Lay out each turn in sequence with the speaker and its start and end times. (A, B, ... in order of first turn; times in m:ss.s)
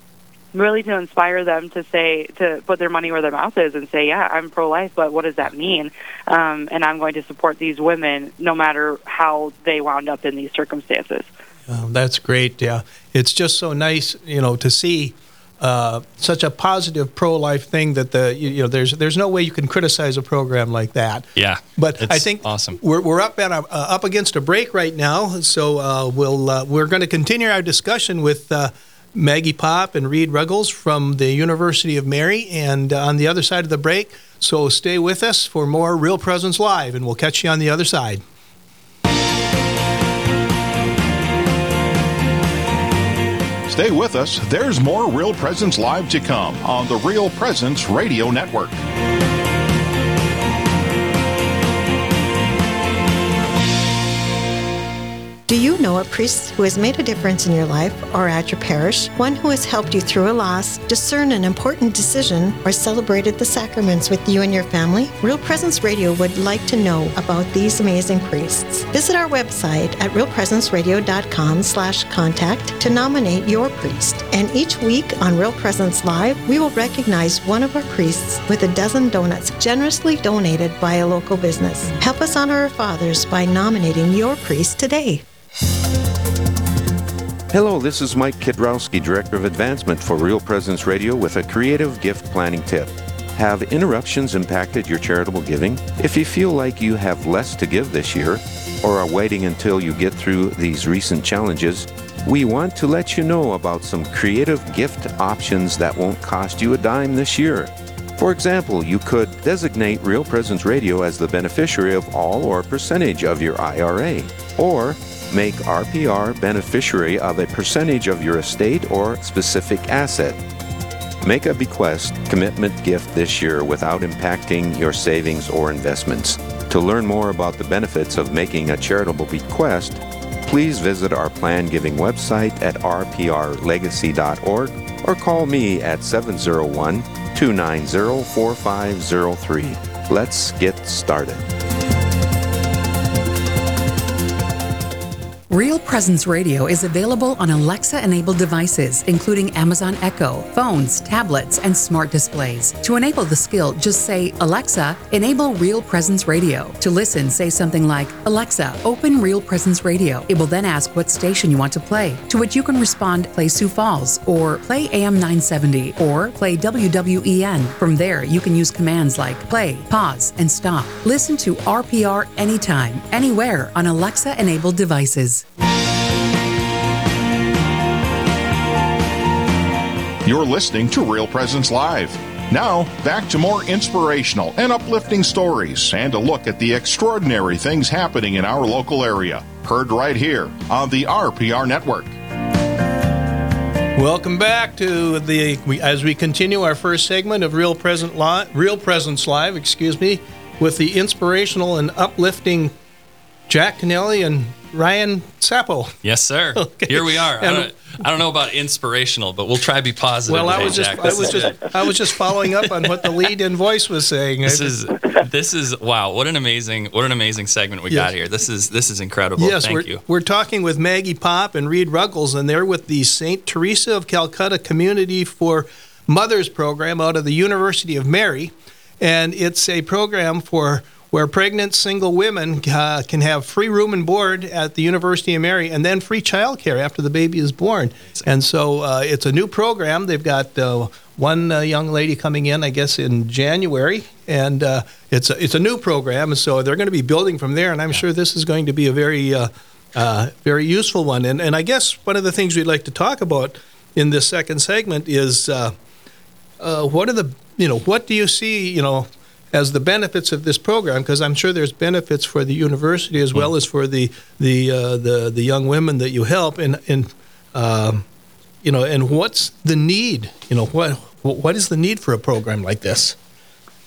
0:00.5-0:11.3 A
0:11.7-0:38.2 B
0:21.4-0:22.8 C
0:43.7-0:48.8 D
0:55.5-1:25.2 E
1:27.5-2:00.4 F
2:01.2-2:21.4 F
2:25.5-2:55.4 G
3:00.2-3:12.1 D
3:14.0-3:22.7 B
3:23.5-3:25.9 B
3:26.0-3:33.1 C
3:26.6-3:27.7 B
3:30.3-3:34.8 B
3:34.4-3:40.0 C
3:39.4-4:15.7 B
4:16.6-4:28.0 B
4:28.6-4:33.2 B